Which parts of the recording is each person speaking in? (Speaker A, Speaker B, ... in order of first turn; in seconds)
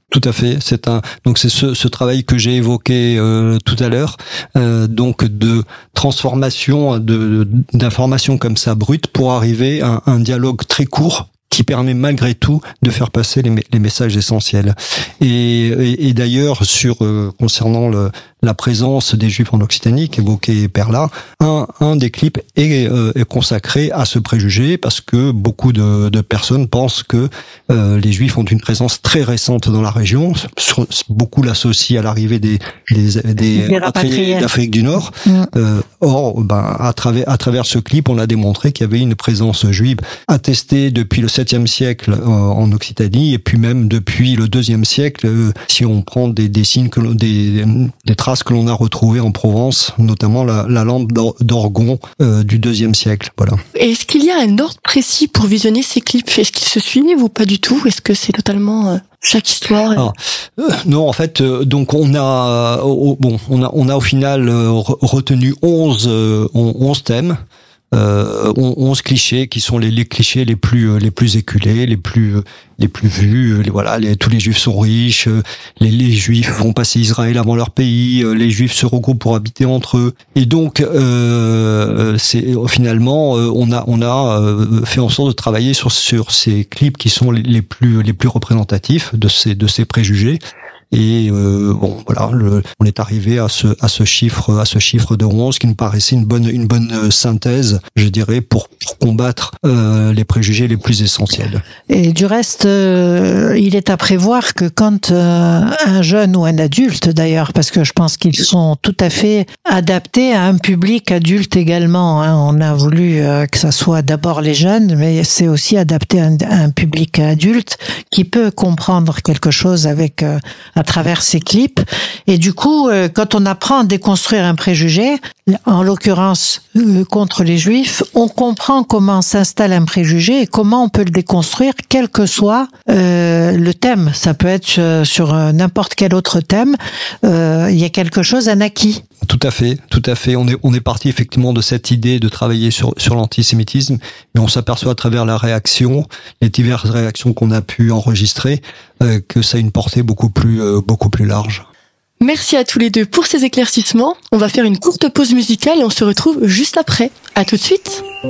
Speaker A: 0.1-53.6, 59.9-67.4, 67.9-90.4, 90.9-101.6, 139.2-151.7
Speaker B: 33.5-34.5, 101.9-139.0
Speaker C: 53.8-60.1, 152.2-158.0